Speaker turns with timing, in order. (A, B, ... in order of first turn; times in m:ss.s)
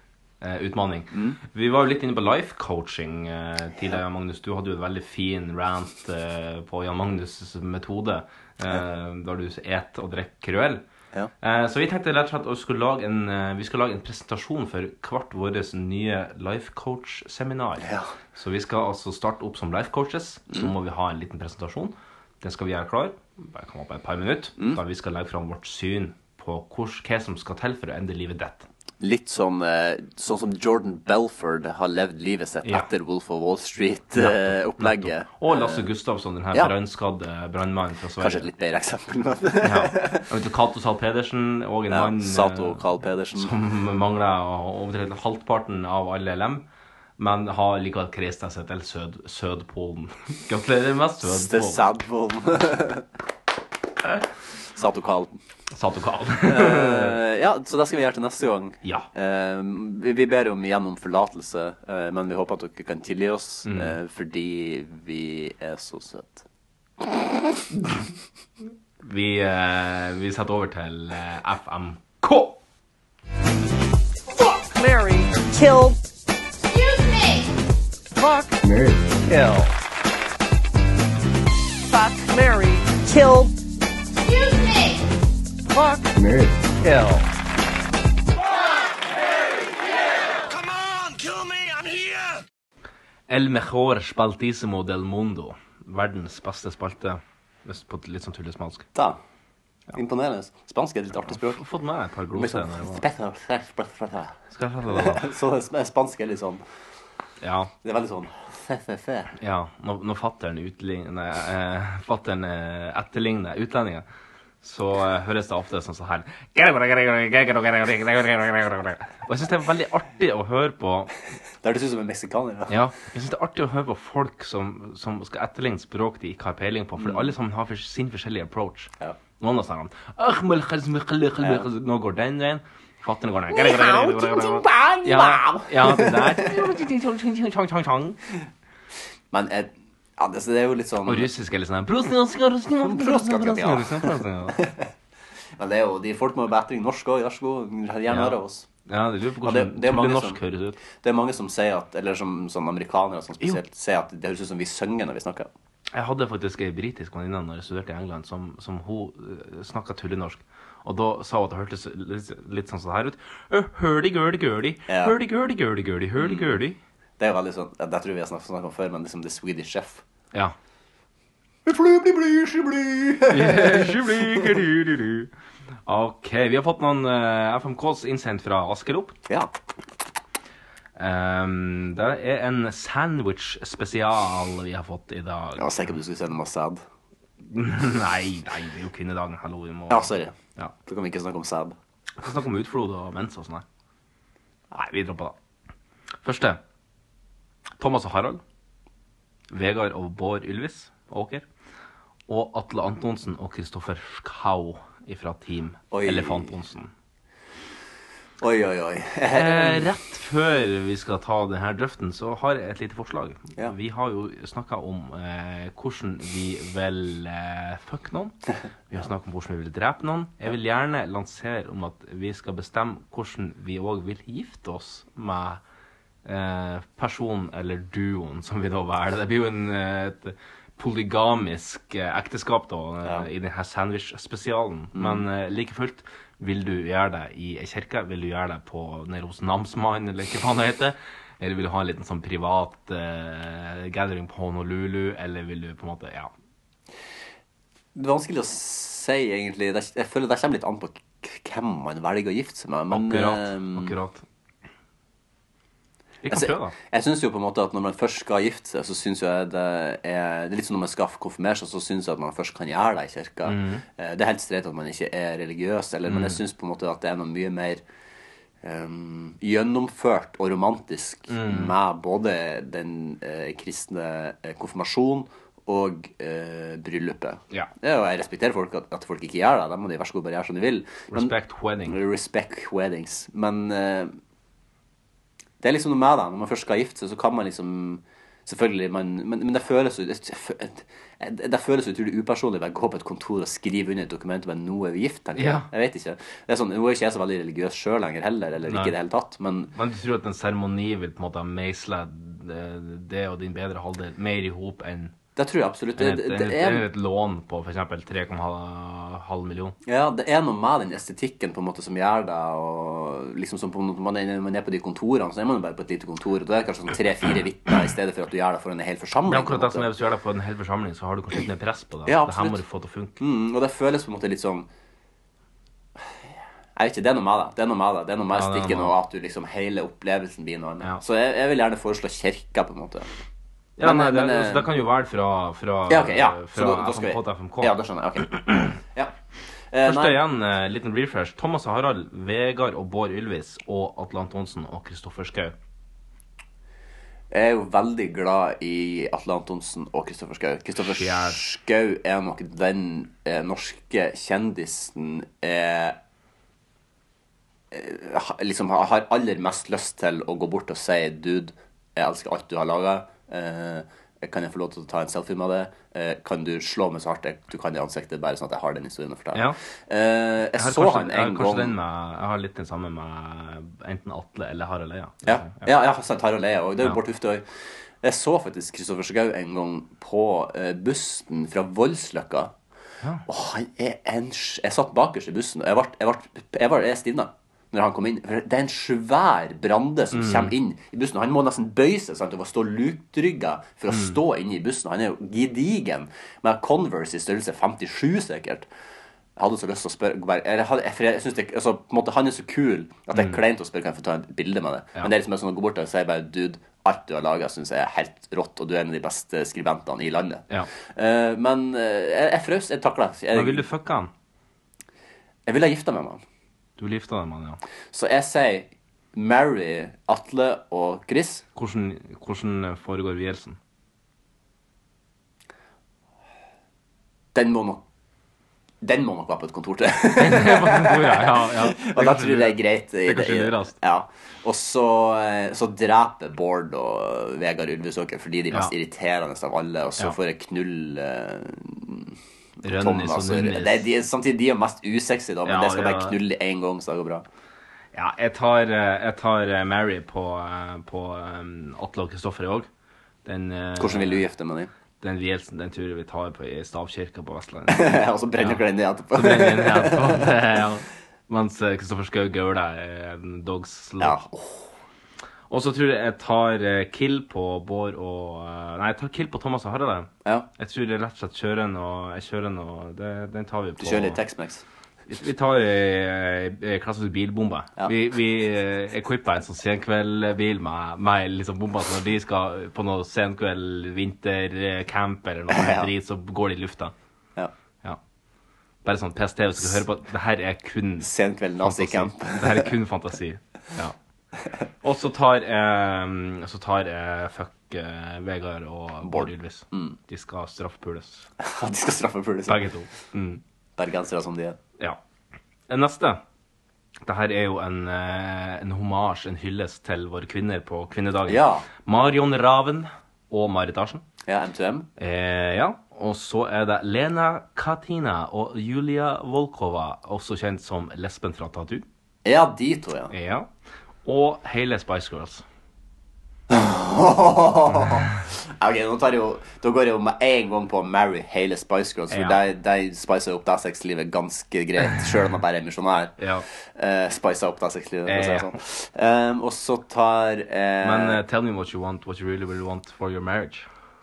0:00.4-0:10.8 A
0:01.1-0:01.4 B
0:11.4-0:28.7 A
0:17.8-0:18.1 B
0:29.0-0:35.8 B
0:34.2-0:38.5 A
0:38.2-0:40.2 B
0:39.6-0:42.8 A
0:41.9-0:43.5 B
0:43.4-0:46.7 A
0:47.2-0:51.8 A
0:51.2-0:53.1 B
0:54.7-0:55.4 B
0:55.7-0:57.2 A
0:56.4-1:06.4 B
0:58.8-0:59.1 A
1:03.6-1:04.0 A
1:09.0-1:12.6 A
1:14.3-1:16.0 C
1:18.1-1:18.6 C
1:19.2-1:19.7 B
1:21.8-1:23.6 C
1:25.6-1:26.2 C
1:26.8-1:27.2 B
1:33.3-1:38.9 A
1:38.9-1:39.2 B
1:39.9-1:41.6 B
1:41.2-1:43.0 A
1:42.3-1:44.4 B
1:44.5-1:45.3 A
1:44.9-1:46.6 B
1:47.4-1:47.7 A
1:47.8-1:49.3 B
1:49.4-1:54.0 A
1:54.6-2:01.1 A
2:01.6-2:02.7 B
2:02.7-2:18.2 A
2:07.0-2:07.3 B
2:11.4-2:11.7 B
2:13.6-2:16.6 B
2:19.3-2:21.3 B
2:21.0-2:24.6 A
2:22.8-2:24.9 B
2:25.6-2:28.7 B
2:28.1-2:30.8 A
2:29.4-2:30.4 B
2:30.9-2:35.5 B
2:35.9-2:46.8 A
2:44.9-2:45.1 B
2:46.2-2:46.5 B
2:47.2-2:50.0 B
2:51.6-2:54.5 B
2:53.3-2:55.3 A
2:55.8-2:59.2 A
3:01.0-3:05.9 A
3:05.6-3:06.8 B
3:07.4-3:10.7 A
3:09.9-3:10.3 B
3:10.8-3:11.8 B
3:12.2-3:13.6 A
3:14.7-3:15.3 A
3:16.2-3:16.6 A
3:17.8-3:18.4 A
3:19.5-3:21.4 A
3:22.3-3:26.9 A
3:25.9-3:26.5 B
3:28.4-3:29.9 B
3:29.3-3:38.3 A
3:38.9-3:45.6 A
3:46.2-4:06.3 A
3:54.9-3:55.2 B
4:07.9-4:13.9 B
4:12.9-4:14.2 A
4:16.2-4:16.7 A
4:16.3-4:27.8 B
4:23.4-4:23.8 A
4:26.1-4:26.4 A
4:28.6-4:41.3 B
4:31.3-4:31.8 A
4:41.1-4:42.0 A
4:41.8-4:44.1 B
4:45.6-4:59.7 B
4:55.4-4:55.7 A
4:58.7-4:58.9 A
4:59.7-5:05.1 A
5:05.4-5:06.9 B
5:06.0-5:09.8 A
5:09.8-5:19.9 B
5:19.3-5:23.2 A
5:22.0-5:22.6 B
5:23.2-5:24.7 B
5:26.8-5:33.1 B
5:28.3-5:28.9 A
5:33.8-5:38.7 A
5:33.8-5:34.7 B
5:35.9-5:39.1 B
5:39.7-5:40.2 B
5:39.8-5:45.6 A
5:47.3-5:56.0 B
5:50.8-5:51.4 A
5:57.7-6:11.8 B
6:10.6-6:15.7 A
6:15.2-6:17.4 B
6:18.0-6:22.5 B
6:23.2-6:38.7 B
6:30.1-6:30.5 A
6:33.9-6:34.2 A
6:39.4-6:53.7 B
6:53.3-6:54.1 A
6:55.5-6:56.2 B
6:56.8-6:57.6 A
6:57.9-7:01.4 B
7:01.5-7:03.6 A
7:07.3-7:07.8 B
7:08.8-7:27.2 B
7:10.2-7:13.8 A
7:22.6-7:23.9 A
7:25.4-7:26.2 A
7:27.9-7:32.7 A
7:33.2-7:34.2 A
7:33.8-7:34.7 B
7:35.0-7:44.2 A
7:37.7-7:40.3 B
7:44.0-7:44.7 B
7:45.5-7:54.2 A
7:53.8-7:54.6 B
7:55.1-8:06.9 A
8:05.5-8:05.9 B
8:08.8-8:13.9 A
8:11.0-8:12.7 B
8:14.8-8:21.3 A
8:19.0-8:20.0 B
8:21.4-8:22.6 B
8:22.5-8:23.4 A
8:23.8-8:24.6 B
8:25.7-8:26.2 A
8:27.0-8:34.0 A
8:31.3-8:31.7 B
8:34.2-8:34.9 B
8:35.0-8:41.8 A
8:42.2-8:43.1 B
8:43.1-8:43.5 A
8:44.0-8:45.4 A
8:46.5-9:01.2 B
8:52.1-8:52.4 A
8:56.2-8:56.4 A
8:58.0-8:58.6 A
9:00.8-9:03.7 A